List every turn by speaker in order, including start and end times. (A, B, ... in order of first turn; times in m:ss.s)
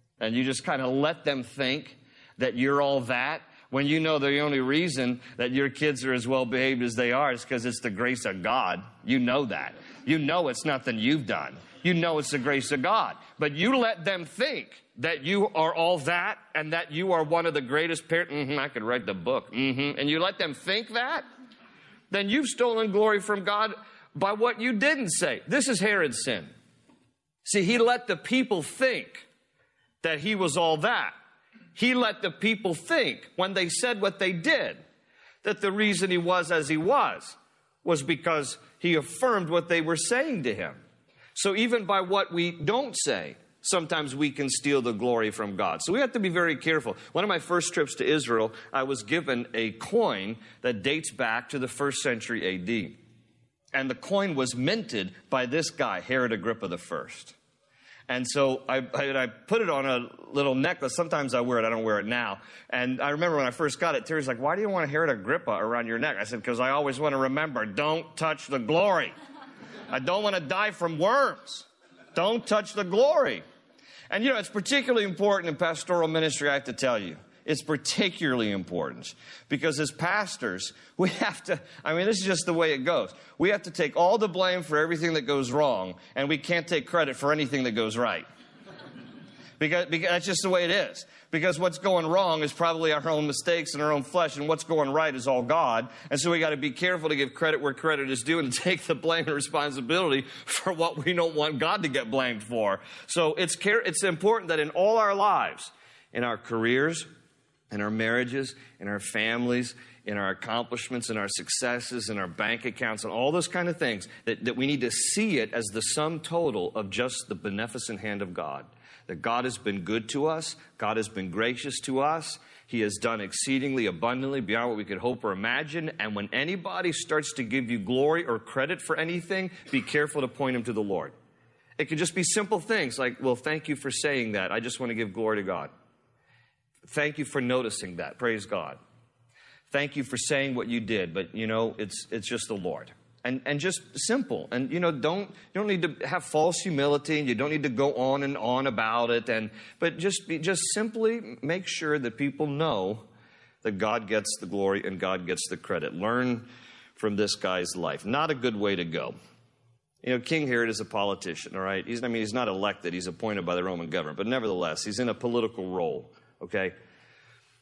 0:00.2-0:21.2 A
0:22.1-0:26.5 A
0:27.4-0:29.2 A
0:30.0-0:31.1 A
0:31.8-0:34.8 A
0:35.4-0:40.8 A
0:41.3-0:53.0 A
0:53.7-0:57.3 A
0:58.1-1:09.1 A
1:09.9-1:13.4 A
1:14.1-1:28.2 A
1:29.6-1:47.1 A
1:47.7-2:11.1 A
2:11.8-2:15.7 A
2:16.9-2:18.8 A
2:19.7-2:33.0 A
2:33.6-2:39.1 A
2:40.0-2:46.8 A